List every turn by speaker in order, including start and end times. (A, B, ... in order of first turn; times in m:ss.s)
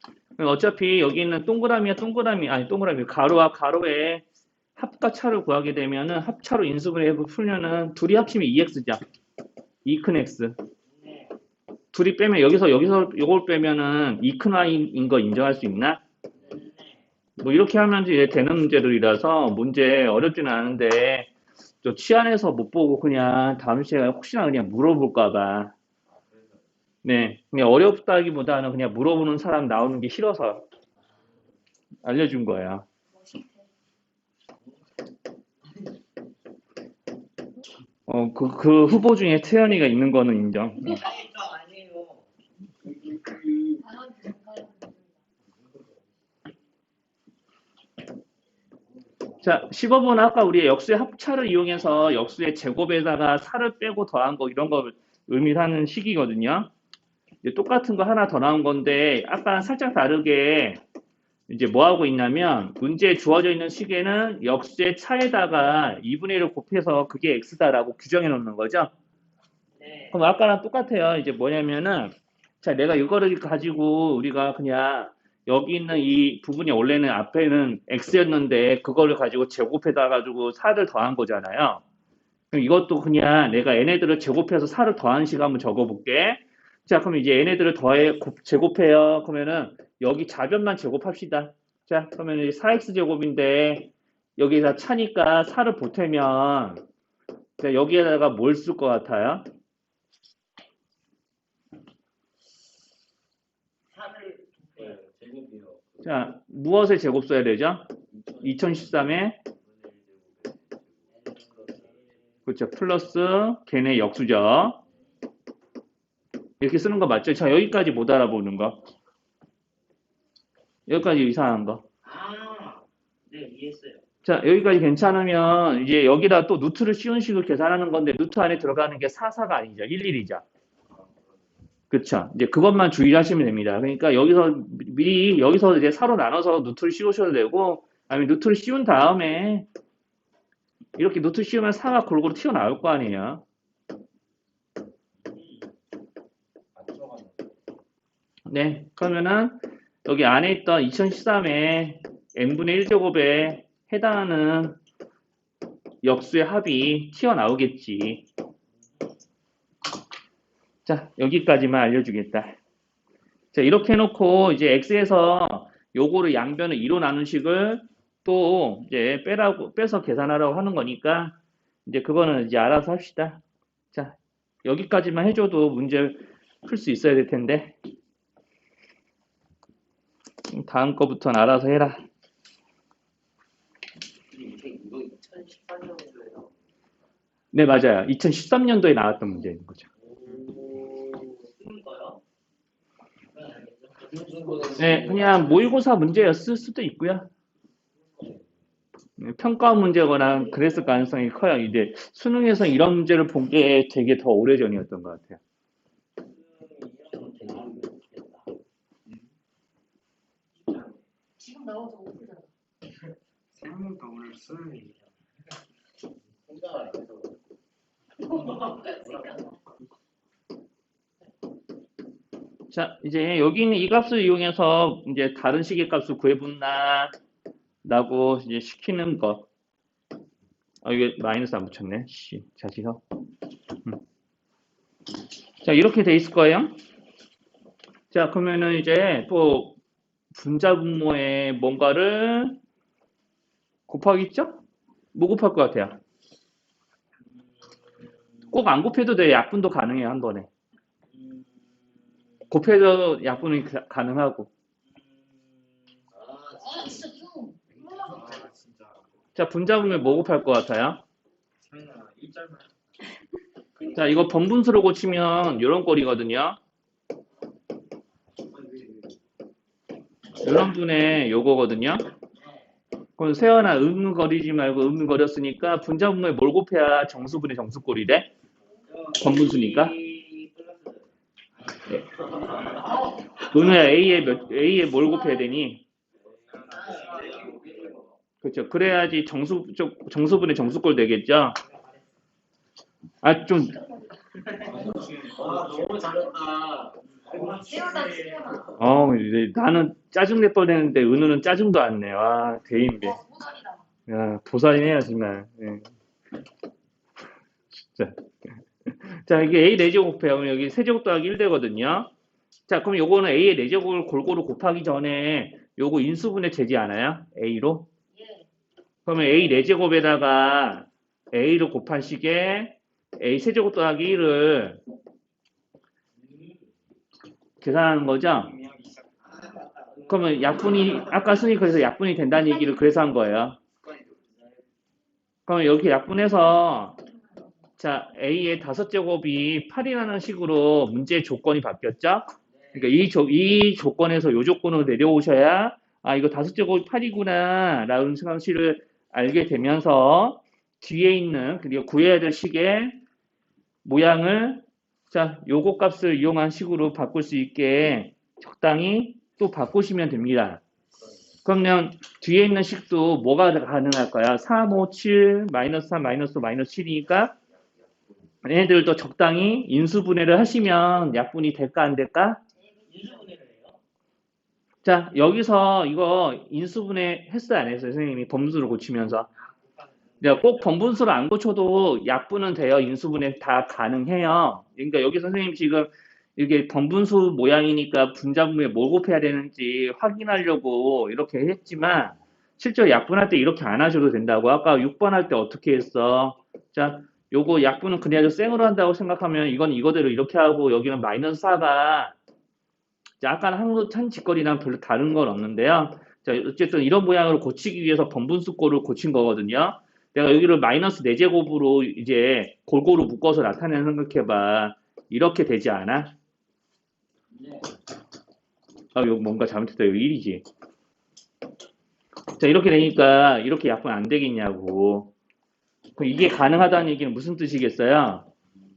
0:00.4-0:04.2 A
0:04.8-0:09.0 A
0:09.8-0:10.6 A
0:10.9-0:11.4 B
0:11.9-0:16.0 A
0:16.4-0:17.0 B
0:17.4-0:21.3 A
0:21.8-0:25.7 A
0:26.1-0:26.6 B
0:27.0-0:30.7 A
0:32.0-0:32.9 A
0:33.2-0:33.6 C
0:38.1-0:41.0 A
0:40.9-0:42.2 B
0:42.9-0:43.7 B
0:43.8-0:45.2 C
0:45.7-0:46.0 B
0:49.0-0:49.4 B
0:49.4-0:56.7 A
0:57.4-1:00.8 A
1:01.5-1:08.9 A
1:09.8-1:10.1 B
1:10.1-1:21.8 A
1:22.5-1:36.8 A
1:37.6-1:39.5 A
1:43.9-1:46.1 B
1:46.0-1:49.4 A
1:48.1-1:49.0 B
1:49.6-1:52.2 B
1:52.5-1:54.8 A
1:56.6-1:58.8 A
2:00.9-2:01.8 A
2:02.0-2:04.0 B
2:04.2-2:10.4 A
2:10.9-2:11.5 B
2:11.9-2:19.7 A
2:21.0-2:23.4 A
2:25.2-2:25.7 B
2:26.8-2:27.5 B
2:28.5-2:34.8 A
2:36.0-2:38.2 A
2:40.9-2:42.6 A
2:43.5-2:51.4 A
2:51.9-2:53.4 A
2:53.9-2:57.8 A
3:00.5-3:02.0 A
3:04.3-3:06.5 B
3:07.5-3:09.9 A
3:10.0-3:12.2 B
3:13.3-3:15.7 B
3:14.8-3:17.3 A
3:18.0-3:18.5 B
3:19.2-3:25.4 A
3:26.2-3:28.5 B
3:31.4-3:32.5 C
3:33.6-3:34.9 D
3:36.4-3:37.4 B
3:38.3-3:39.6 C
3:42.7-3:47.1 A
3:47.8-3:49.5 A
3:50.8-3:53.0 A
3:55.6-3:56.8 A
3:58.1-3:59.8 A
4:00.3-4:02.6 A
4:03.9-4:04.6 A
4:05.2-4:06.0 A
4:08.5-4:10.5 A
4:11.1-4:11.8 B
4:12.5-4:14.5 A
4:16.0-4:17.0 B
4:16.6-4:18.4 C
4:18.1-4:18.5 B
4:18.3-4:18.8 D
4:19.4-4:21.0 A
4:21.7-4:22.6 D
4:23.9-4:26.6 A
4:28.6-4:29.1 B
4:30.4-4:32.1 A
4:33.2-4:38.3 A
4:38.9-4:41.1 B
4:39.2-4:40.0 A
4:41.7-4:43.0 B
4:43.4-4:45.8 A
4:46.2-4:48.1 B
4:48.4-4:51.6 A
4:53.2-4:53.8 A
4:54.7-4:56.1 D
4:54.7-4:57.7 B
4:57.5-4:58.7 C
4:58.8-5:03.2 A
5:03.0-5:03.8 C
5:04.1-5:05.9 A
5:07.7-5:08.2 A
5:08.9-5:12.1 A
5:12.7-5:17.9 A
5:18.1-5:18.5 C
5:19.1-5:24.8 A
5:26.2-5:26.6 B
5:27.6-5:28.6 A
5:29.3-5:30.2 B
5:30.1-5:33.6 A
5:33.8-5:34.6 B
5:35.5-5:37.0 A
5:37.8-5:53.0 A
5:42.5-5:42.9 B
5:53.8-6:00.6 A
6:01.4-6:07.4 A
6:08.4-6:12.4 A
6:12.9-6:13.8 B
6:14.8-6:19.3 A
6:19.4-6:20.4 B
6:20.2-6:42.1 A
6:43.2-6:56.2 A
6:57.3-6:57.7 B
6:59.0-7:00.4 A
7:02.4-7:05.1 A
7:06.0-7:08.3 A